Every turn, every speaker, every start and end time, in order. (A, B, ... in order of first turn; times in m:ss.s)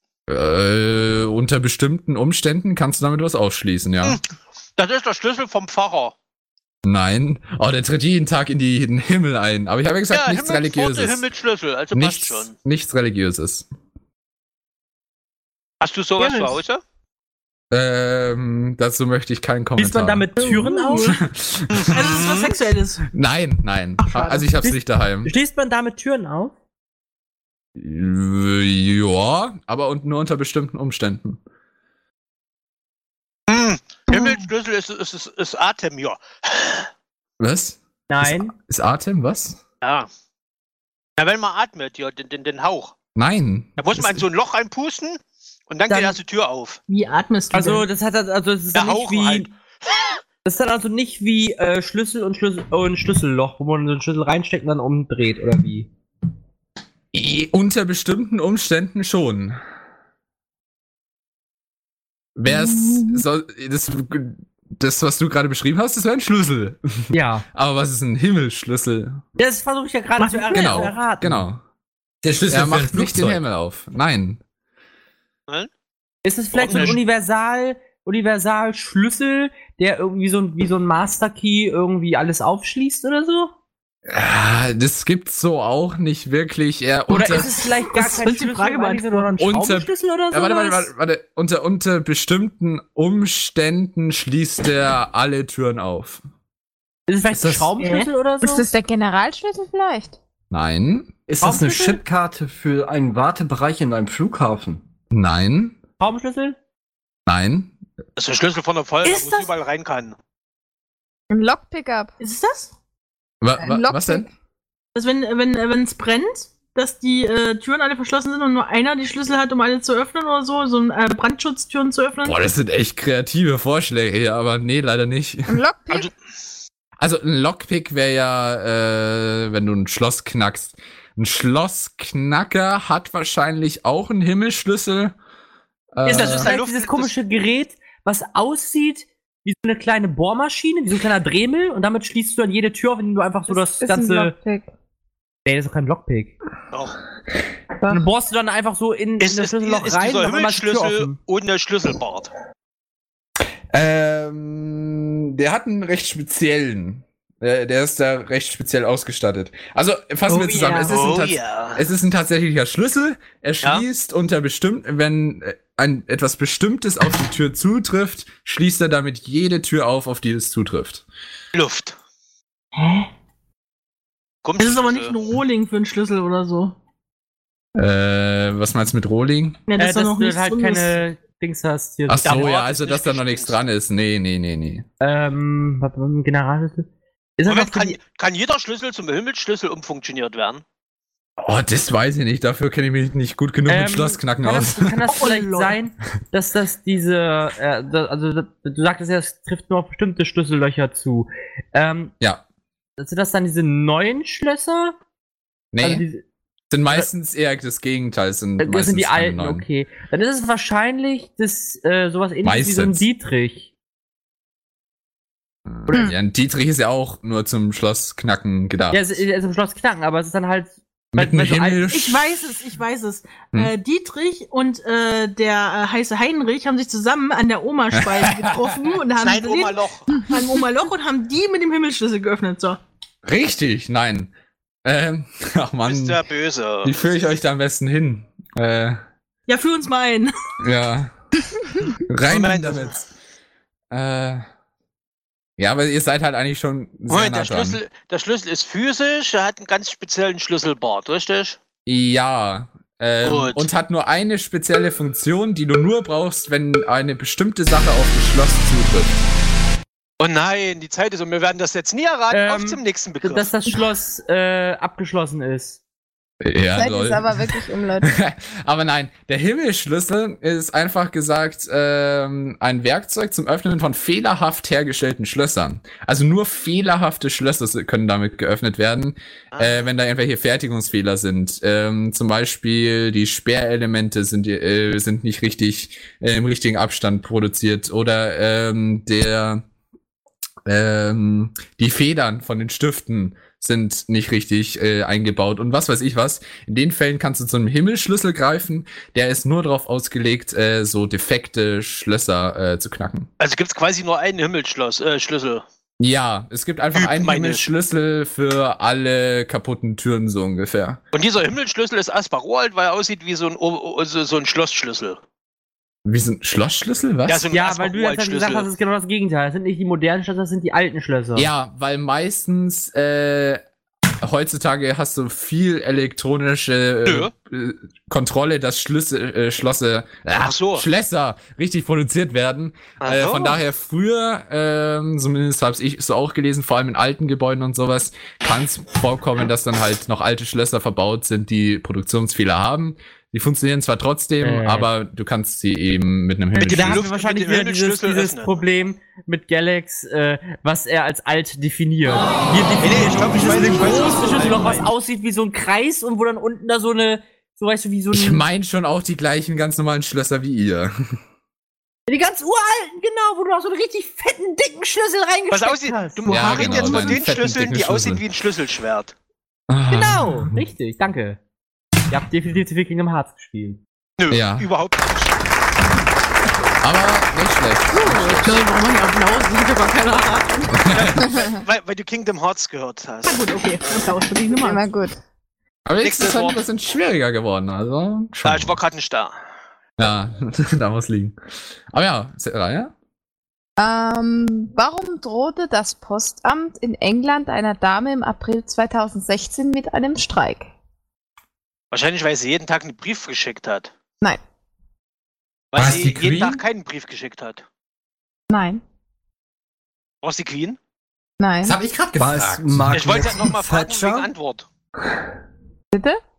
0:00.3-0:04.2 A
0:04.8-0:06.1 B
0:06.8-0:11.2 A
0:10.1-0:12.6 B
0:11.9-0:13.7 A
0:15.8-0:16.8 B
0:16.2-0:16.6 C
0:17.7-0:20.5 A
0:19.8-0:21.1 D
0:20.4-0:21.2 C
0:21.0-0:22.3 A
0:21.7-0:22.5 B
0:21.9-0:23.1 C
0:23.1-0:25.3 A
0:24.0-0:24.4 C
0:24.6-0:26.5 D
0:27.8-0:31.4 A
0:33.5-0:36.9 B
0:37.4-0:39.6 A
0:38.1-0:38.5 D
0:39.8-0:40.1 B
0:41.2-0:42.9 B
0:43.2-0:44.2 A
0:43.8-0:46.8 B
0:46.9-0:47.9 C
0:47.5-0:49.5 D
0:48.7-0:50.1 B
0:50.4-0:55.9 D
0:57.1-0:59.6 A
1:02.4-1:09.2 A
1:07.1-1:07.4 D
1:09.4-1:11.5 D
1:10.2-1:10.9 C
1:10.5-1:11.6 A
1:12.2-1:13.4 E
1:12.5-1:14.4 A
1:16.2-1:23.5 D
1:16.5-1:17.0 B
1:24.1-1:27.5 A
1:27.1-1:30.9 D
1:27.9-1:29.3 C
1:29.4-1:36.2 A
1:37.1-1:38.6 D
1:37.4-1:37.7 A
1:37.8-1:38.1 C
1:38.4-1:40.2 F
1:40.5-1:41.2 A
1:41.3-1:44.8 G
1:41.4-1:42.0 D
1:45.1-1:45.8 A
1:46.0-1:46.6 D
1:47.3-1:47.8 A
1:48.2-1:50.2 B
1:49.0-1:49.5 C
1:51.3-1:52.1 F
1:52.2-1:52.7 C
1:53.4-1:54.3 A
1:53.6-1:54.3 F
1:54.9-2:02.5 C
2:02.2-2:05.6 A
2:05.5-2:06.1 F
2:07.0-2:15.1 A
2:15.9-2:16.5 A
2:16.0-2:24.3 D
2:16.1-2:17.1 B
2:23.5-2:24.7 F
2:25.4-2:26.3 D
2:26.7-2:27.0 B
2:27.8-2:28.0 F
2:27.9-2:31.2 D
2:29.2-2:32.3 B
2:33.7-2:51.0 A
2:40.3-2:41.0 D
2:40.8-2:41.8 B
2:51.5-2:52.0 B
2:52.8-2:53.1 C
2:54.4-2:55.2 B
2:54.6-2:56.7 C
2:57.7-2:59.6 A
2:59.7-3:01.0 C
2:59.8-3:02.5 D
3:02.1-3:04.8 A
3:02.2-3:03.6 B
3:05.0-3:08.0 D
3:07.4-3:10.6 B
3:11.4-3:15.0 A
3:13.7-3:22.1 D
3:15.1-3:15.8 C
3:23.0-3:25.0 D
3:25.7-3:26.0 A
3:25.8-3:26.2 D
3:26.7-3:29.6 A
3:28.6-3:33.7 D
3:32.4-3:33.0 A
3:35.7-3:39.1 A
3:35.9-3:36.1 D
3:38.9-3:41.8 D
3:41.1-3:42.5 A
3:41.9-3:49.8 C
3:47.9-3:48.8 A
3:49.2-3:50.2 B
3:50.3-3:52.8 C
3:53.2-3:54.3 A
3:54.8-3:56.2 A
3:55.9-3:57.0 B
3:56.8-3:59.0 A
3:59.5-4:00.3 C
4:00.6-4:01.1 A
4:02.1-4:03.0 A
4:02.3-4:03.0 B
4:03.9-4:04.4 A
4:05.6-4:07.8 A
4:07.1-4:11.6 B
4:11.9-4:19.2 A
4:13.2-4:13.7 B
4:20.2-4:23.5 B
4:22.3-4:25.8 D
4:26.4-4:27.5 A
4:26.7-4:28.1 F
4:28.0-4:49.6 A
4:39.5-4:39.9 B
4:50.6-5:03.3 A
5:03.4-5:05.6 B
5:06.0-5:11.0 A
5:06.9-5:07.7 B
5:11.1-5:15.2 B
5:16.0-5:17.5 A
5:17.3-5:18.7 B
5:17.5-5:21.5 D
5:21.3-5:23.6 A
5:24.2-5:47.0 A
5:27.0-5:27.3 B
5:30.4-5:30.9 B
5:33.0-5:33.6 B
5:44.4-5:44.9 D
5:46.6-5:48.5 B
5:46.6-5:58.4 D
5:52.8-5:54.9 B
5:58.1-6:01.2 A
6:02.1-6:07.2 D
6:05.5-6:09.1 B
6:06.3-6:08.2 A
6:09.7-6:10.6 A
6:09.9-6:11.4 D
6:12.1-6:13.8 D
6:14.2-6:15.4 B
6:14.3-6:14.7 A
6:16.8-6:18.6 A
6:17.9-6:20.8 C
6:20.7-6:21.3 A
6:20.9-6:23.4 B
6:23.2-6:24.8 C
6:24.6-6:25.2 F
6:25.9-6:28.8 A
6:26.0-6:26.6 B
6:28.4-6:29.3 B
6:30.0-6:31.4 A
6:31.9-6:32.9 A
6:33.8-6:40.7 F
6:41.9-6:43.9 B
6:45.7-6:47.6 B
6:45.7-6:46.6 E
6:48.5-6:48.8 F
6:50.2-6:50.8 B
6:51.4-6:51.8 F
6:51.6-6:53.0 E
6:52.2-6:54.3 G
6:52.9-6:54.7 B
6:55.9-6:56.2 F